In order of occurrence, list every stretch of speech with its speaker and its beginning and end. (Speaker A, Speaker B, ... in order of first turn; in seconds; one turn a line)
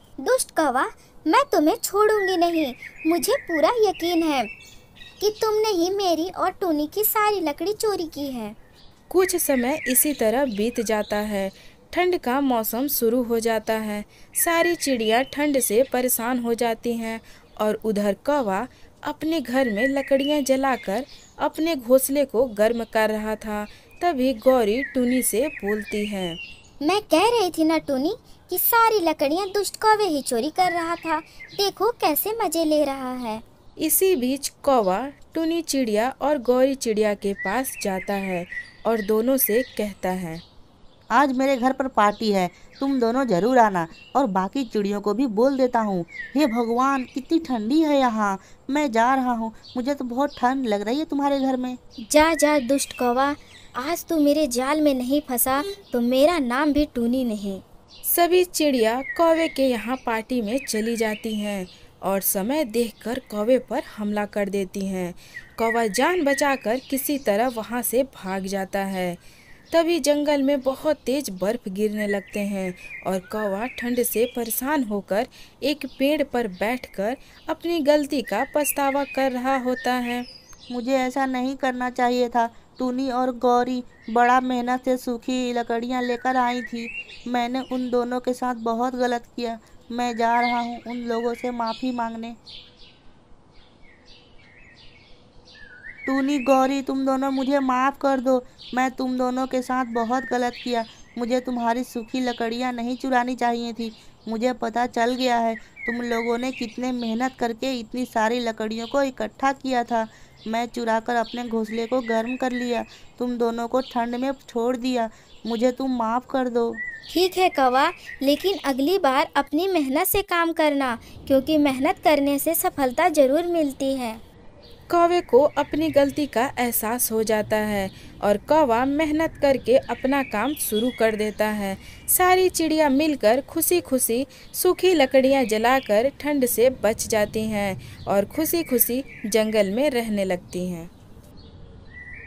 Speaker A: 0.2-4.5
Speaker A: 5.2-8.6
Speaker B: 9.1-26.4
Speaker A: 26.8-33.4
Speaker B: 33.8-40.4
Speaker C: 41.1-51.8
Speaker A: 52.1-57.6
Speaker B: 58.0-69.2
Speaker B: 69.7-80.3
Speaker C: 80.7-92.4
Speaker C: 96.1-116.8
Speaker A: 117.1-124.2
Speaker B: 124.9-140.9